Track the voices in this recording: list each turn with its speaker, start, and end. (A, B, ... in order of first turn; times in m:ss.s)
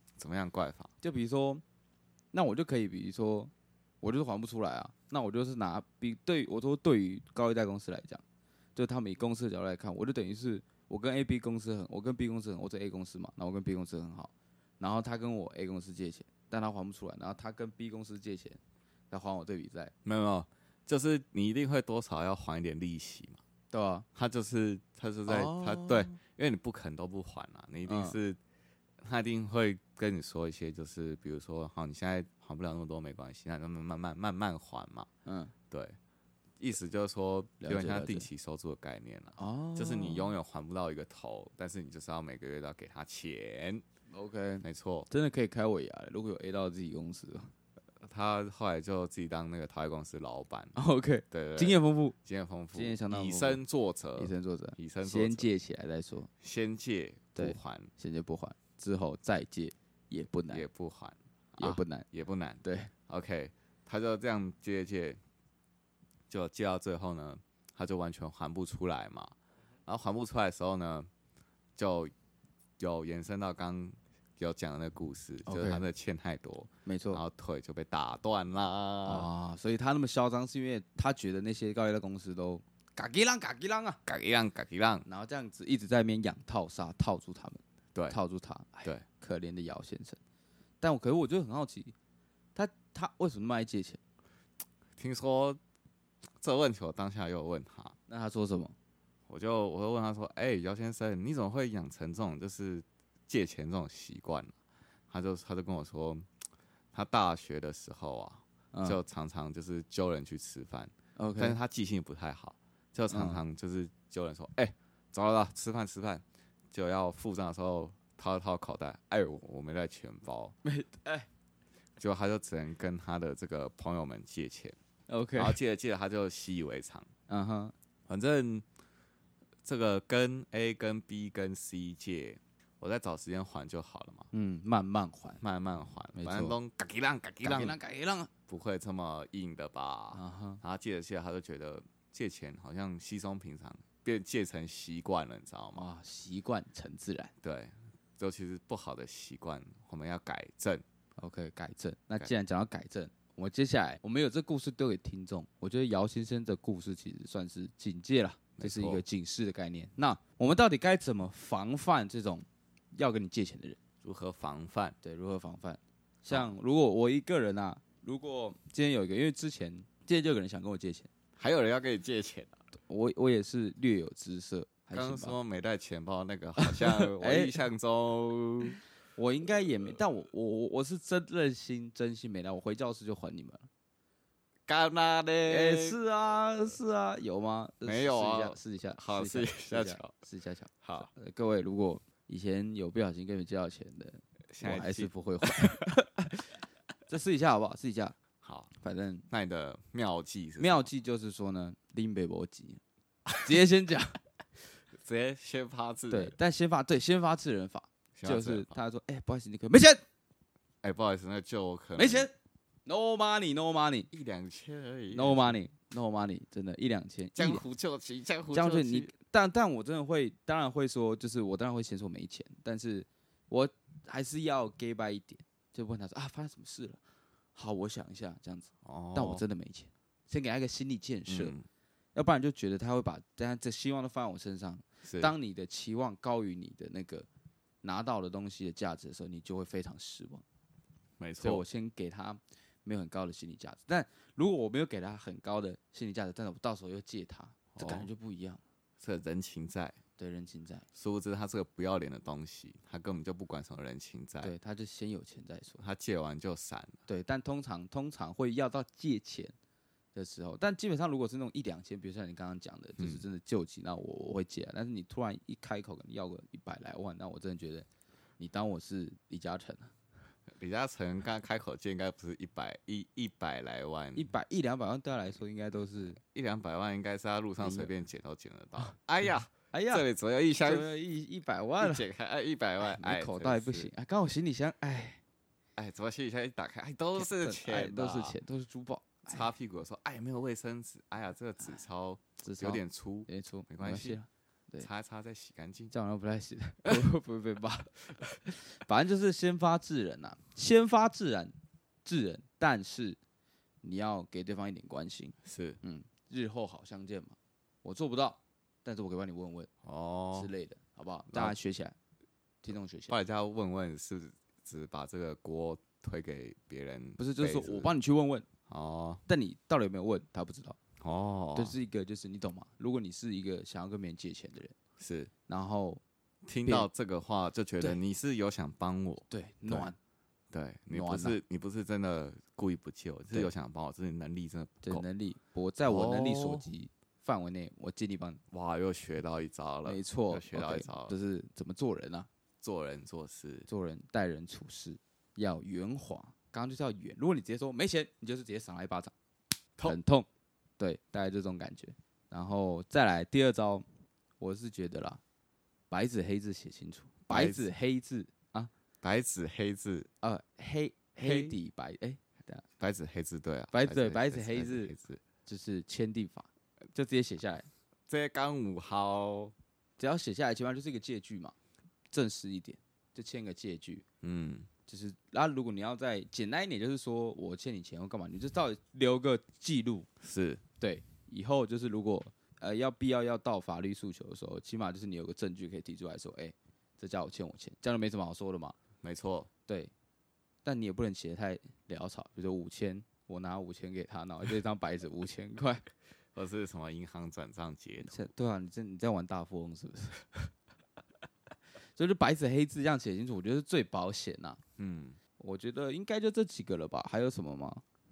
0:00.2-0:00.9 A
0:01.0-0:01.6 B
0:02.3-0:08.2 B
0:08.8-0:18.6 B
0:19.1-0:19.9 B
0:20.0-0:23.4 A
0:23.7-0:24.0 B
0:24.1-0:28.4 A
0:25.3-0:26.2 B
0:27.8-0:28.2 B
0:29.0-0:35.1 A
0:35.2-0:35.5 B
0:35.7-0:36.0 A
0:36.6-0:43.8 A
0:37.6-0:38.3 B
0:39.4-0:40.3 B
0:44.1-0:47.5 B
0:44.6-0:45.1 A
0:48.0-0:50.7 A
0:50.7-0:52.1 B
0:51.3-0:55.5 A
0:52.7-0:53.6 B
0:54.2-0:56.3 B
0:56.4-0:57.9 A
0:57.3-1:00.6 B
1:00.5-1:05.2 A
1:01.6-1:02.0 B
1:02.6-1:02.9 B
1:06.3-1:09.3 A
1:09.8-1:11.1 A
1:11.8-1:12.1 A
1:12.8-1:19.3 A
1:15.4-1:15.8 B
1:16.8-1:17.2 B
1:19.0-1:24.0 B
1:24.0-1:25.0 A
1:25.0-1:30.2 B
1:30.8-1:31.9 B
1:32.5-1:34.0 B
1:35.0-1:35.6 A
1:36.4-1:37.9 A
1:38.1-1:38.7 B
1:39.3-1:44.5 A
1:45.1-1:46.3 A
1:46.9-2:00.6 A
1:48.7-1:49.0 B
1:51.2-1:51.6 B
1:53.1-1:53.4 B
2:00.6-2:01.3 B
2:02.0-2:04.8 A
2:05.1-2:05.6 B
2:05.4-2:07.1 A
2:07.3-2:07.7 B
2:08.1-2:08.6 A
2:09.6-2:14.3 A
2:14.3-2:15.4 B
2:15.4-2:17.8 A
2:16.2-2:16.6 B
2:17.4-2:18.3 B
2:18.5-2:25.8 A
2:20.1-2:20.6 B
2:25.7-2:27.3 B
2:27.4-2:30.8 A
2:31.2-2:43.8 B
2:38.6-2:39.0 A
2:44.0-2:45.0 A
2:45.0-2:51.1 B
2:51.4-2:52.6 A
2:52.9-2:55.4 B
2:54.9-2:58.8 A
2:56.6-2:57.6 B
2:59.2-3:03.7 B
3:04.7-3:06.0 A
3:05.5-3:16.4 B
3:07.8-3:10.1 A
3:10.8-3:11.1 A
3:14.5-3:15.9 A
3:17.1-3:18.2 B
3:18.4-3:18.7 A
3:18.8-3:19.3 B
3:19.3-3:20.8 A
3:20.6-3:22.8 B
3:23.4-3:24.2 B
3:24.9-3:26.3 A
3:26.1-3:30.0 B
3:28.2-3:28.7 A
3:30.8-3:32.3 A
3:32.0-3:32.3 B
3:32.8-3:34.1 B
3:34.1-3:35.6 A
3:35.1-3:37.6 B
3:37.3-3:39.1 A
3:38.5-3:47.0 B
3:47.5-3:51.5 B
3:48.8-3:49.4 A
3:51.3-3:51.6 A
3:52.1-3:57.3 B
3:55.0-3:55.3 A
3:57.8-4:00.4 B
4:01.2-4:01.6 A
4:01.4-4:08.6 B
4:07.7-4:08.1 A
4:09.0-4:10.0 A
4:10.2-4:10.8 B
4:10.9-4:14.5 A
4:14.4-4:15.8 B
4:15.8-4:17.0 A
4:17.1-4:19.5 B
4:20.1-4:27.9 B
4:23.0-4:23.2 A
4:28.4-4:29.9 B
4:30.6-4:34.3 A
4:34.1-4:36.2 B
4:36.2-4:40.9 A
4:37.6-4:37.9 B
4:39.7-4:40.1 B
4:40.6-4:42.0 B
4:41.8-4:43.9 A
4:42.8-4:45.2 B
4:45.8-4:48.4 A
4:47.1-4:49.4 B
4:49.2-4:54.2 A
4:52.4-4:54.9 B
4:54.8-4:55.9 A
4:55.9-5:03.2 B
5:03.8-5:09.7 B
5:05.4-5:05.8 A
5:09.8-5:10.5 A
5:10.3-5:12.0 B
5:11.3-5:11.6 A
5:12.6-5:13.2 B
5:13.1-5:17.9 A
5:17.2-5:18.4 B
5:18.7-5:19.2 A
5:19.3-5:20.8 B
5:21.0-5:21.8 A
5:21.5-5:24.8 B
5:25.0-5:25.3 A
5:25.5-5:26.0 B
5:26.4-5:29.9 A
5:29.3-5:30.0 B
5:30.5-5:35.0 A
5:30.9-5:31.4 B
5:34.8-5:38.4 B
5:35.8-5:36.6 A
5:38.5-5:41.1 A
5:39.8-5:42.3 B
5:42.6-5:43.7 A
5:43.7-5:49.1 B
5:49.8-5:50.3 B
5:50.8-5:53.8 B
5:54.4-5:55.2 B
5:55.9-5:58.7 B
5:57.3-5:57.7 A
5:59.0-6:00.1 A
6:00.2-6:02.6 B
6:01.2-6:01.5 A
6:02.8-6:05.2 A
6:03.7-6:04.9 B
6:05.4-6:07.7 B
6:08.1-6:09.5 A
6:10.0-6:11.6 B
6:12.1-6:14.0 B
6:14.2-6:14.7 A
6:14.9-6:20.1 B
6:20.2-6:20.6 A
6:20.8-6:28.8 B
6:29.0-6:29.5 A
6:29.7-6:29.9 B
6:30.6-6:35.8 B
6:36.3-6:38.2 A
6:38.0-6:40.4 B
6:41.9-6:44.6 B
6:44.8-6:45.2 A
6:45.4-6:47.8 B